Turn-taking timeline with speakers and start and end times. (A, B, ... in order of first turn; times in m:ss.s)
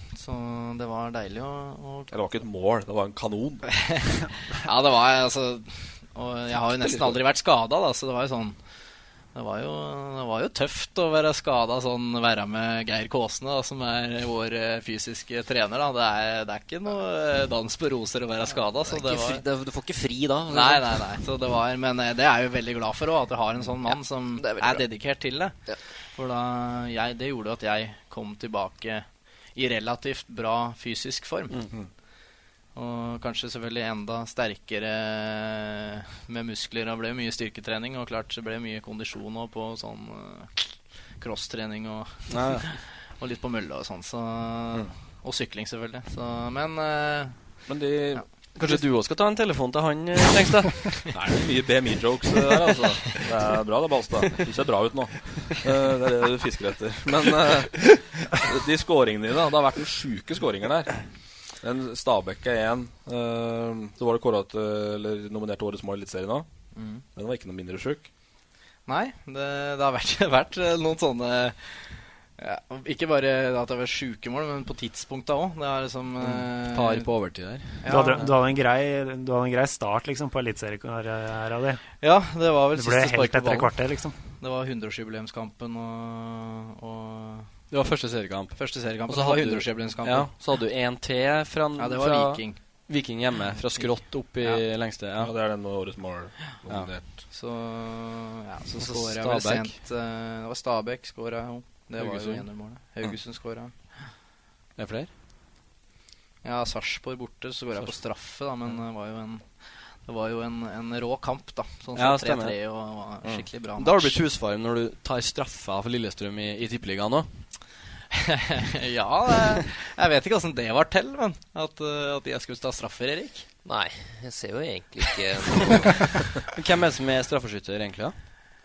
0:00.1-0:02.1 A
0:02.1-0:03.6 B
0:03.7-0:08.6 A
0:06.8-0:07.2 B
0:09.3-0:19.4 A
0:18.6-0:21.2 C
0:20.5-0:25.6 A
0:23.8-0:24.8 C
0:26.1-0:31.6 A
0:32.8-0:47.4 A
0:42.3-0:42.7 D
0:47.7-0:48.8 B
0:48.6-0:51.0 D
0:51.1-1:01.0 B
1:01.6-1:06.4 B
1:06.8-1:07.0 A
1:07.2-1:08.1 B
1:08.9-1:17.1 A
1:16.2-1:17.8 D
1:17.8-1:18.3 A
1:17.9-1:21.8 E
1:22.0-1:23.7 A
1:22.8-1:24.1 E
1:24.4-1:27.5 A
1:27.7-1:28.6 D
1:28.5-1:30.3 A
1:29.1-1:35.3 D
1:31.8-1:32.6 A
1:35.2-1:37.0 B
1:37.3-1:43.7 A
1:38.8-1:39.7 D
1:42.0-1:42.4 D
1:44.8-1:45.1 D
1:46.4-1:49.4 A
1:50.0-1:54.2 A
1:52.0-1:52.5 D
1:53.8-1:57.3 D
1:58.1-2:03.5 A
2:03.6-2:06.1 C
2:06.5-2:08.1 D